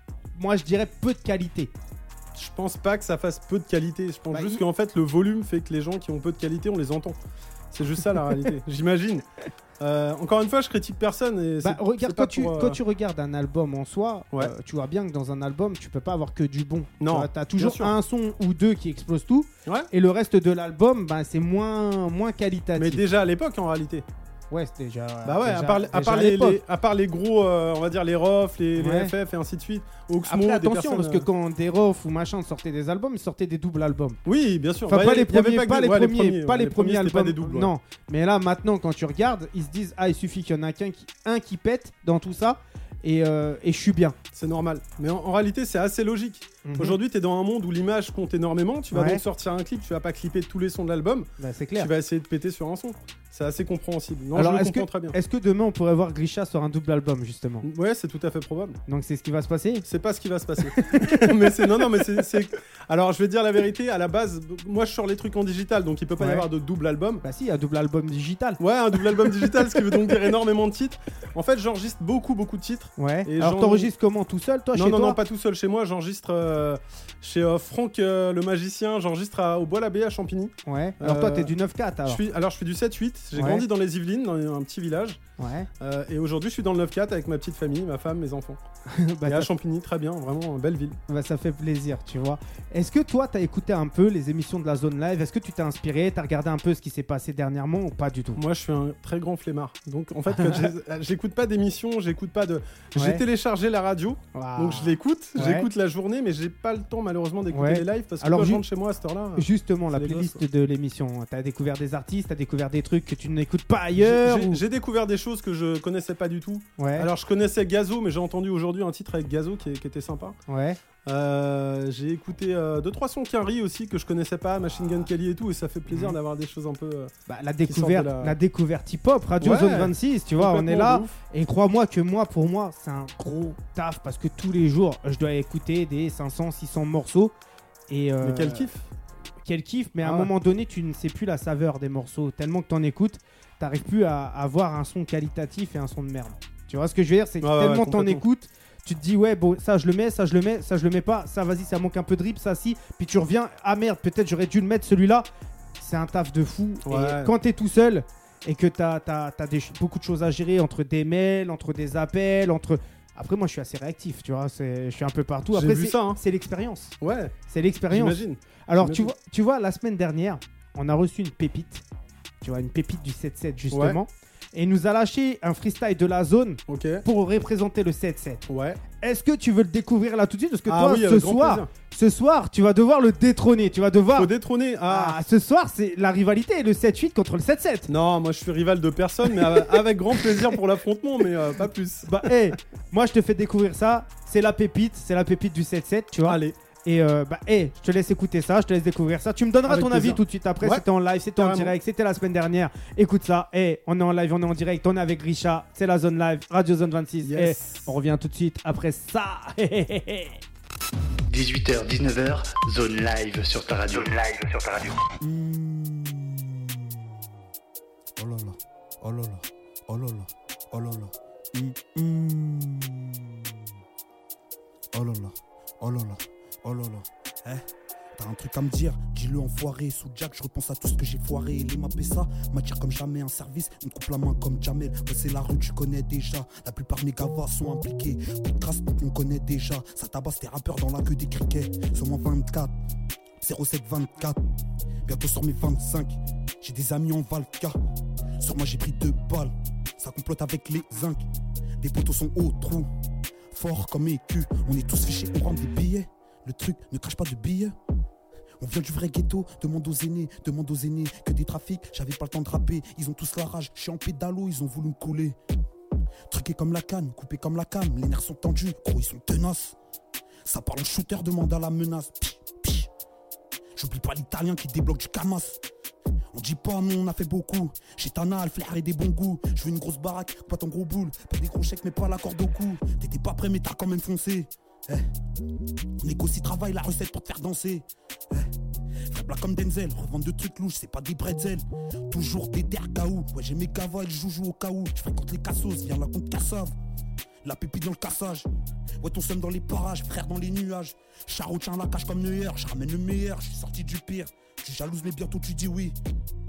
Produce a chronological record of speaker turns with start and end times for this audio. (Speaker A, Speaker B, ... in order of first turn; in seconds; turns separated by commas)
Speaker A: 0.3-1.7, Speaker B: 2.3-7.2, Speaker A: 4.3-4.6, Speaker B: 7.7-9.2, Speaker B: 9.8-12.8, Speaker A: 11.6-23.0, Speaker B: 17.0-17.9, Speaker B: 22.8-24.0, Speaker A: 24.5-26.6, Speaker B: 25.2-31.3, Speaker A: 28.8-29.1, Speaker A: 30.2-34.2, Speaker B: 34.2-37.7, Speaker A: 34.9-44.1, Speaker B: 44.3-55.1, Speaker A: 46.6-47.0, Speaker A: 48.9-49.2, Speaker A: 51.4-51.9, Speaker A: 54.3-57.6, Speaker B: 57.6-58.8, Speaker A: 58.9-59.8, Speaker B: 59.8-67.2, Speaker A: 60.8-61.3, Speaker A: 66.2-66.5, Speaker A: 67.2-68.6, Speaker B: 68.6-73.9, Speaker A: 73.0-75.2, Speaker B: 74.7-81.5, Speaker A: 80.7-82.2, Speaker B: 82.0-85.2, Speaker A: 83.3-83.6, Speaker A: 85.4-85.7, Speaker B: 85.8-88.6, Speaker A: 88.9-89.5, Speaker B: 89.2-91.0, Speaker A: 91.1-98.4, Speaker B: 98.4-110.4, Speaker A: 100.3-100.7, Speaker A: 103.0-103.2, Speaker A: 104.3-105.7, Speaker A: 107.5-108.6, Speaker A: 109.4-114.6, Speaker B: 114.0-120.4, Speaker A: 116.8-117.1, Speaker A: 120.5-120.8, Speaker B: 121.0-127.1, Speaker A: 125.9-126.2, Speaker A: 127.3-137.3, Speaker B: 127.7-128.4, Speaker B: 129.4-131.1, Speaker A: 137.9-138.7, Speaker B: 138.2-138.8, Speaker A: 139.4-155.3, Speaker B: 140.0-140.3, Speaker B: 147.4-148.2, Speaker A: 155.8-166.9, Speaker B: 156.8-157.3, Speaker B: 165.5-166.2, Speaker B: 167.0-167.3, Speaker A: 167.5-171.8, Speaker B: 167.9-169.1, Speaker A: 172.4-178.4, Speaker B: 173.7-174.0, Speaker B: 176.7-177.0, Speaker B: 178.5-178.8, Speaker A: 179.0-184.3, Speaker B: 180.7-181.7, Speaker B: 184.2-185.2, Speaker A: 184.9-187.9, Speaker B: 187.9-192.3, Speaker A: 192.1-210.4, Speaker B: 196.2-196.5, Speaker B: 199.7-200.8, Speaker B: 201.3-201.7, Speaker B: 207.2-207.9, Speaker C: 211.3-215.0, Speaker D: 215.2-217.1, Speaker D: 218.2-223.6, Speaker D: 224.9-227.6, Speaker D: 228.2-242.7, Speaker D: 243.4-244.4, Speaker D: 245.1-247.8, Speaker D: 248.4-251.2, Speaker D: 251.8-252.9, Speaker D: 253.5-257.7, Speaker D: 258.6-265.4, Speaker D: 266.3-269.8, Speaker D: 270.4-272.9, Speaker D: 273.8-275.6, Speaker D: 276.3-285.0, Speaker D: 286.0-288.5, Speaker D: 289.1-296.7, Speaker D: 297.4-298.5, Speaker D: 299.0-305.9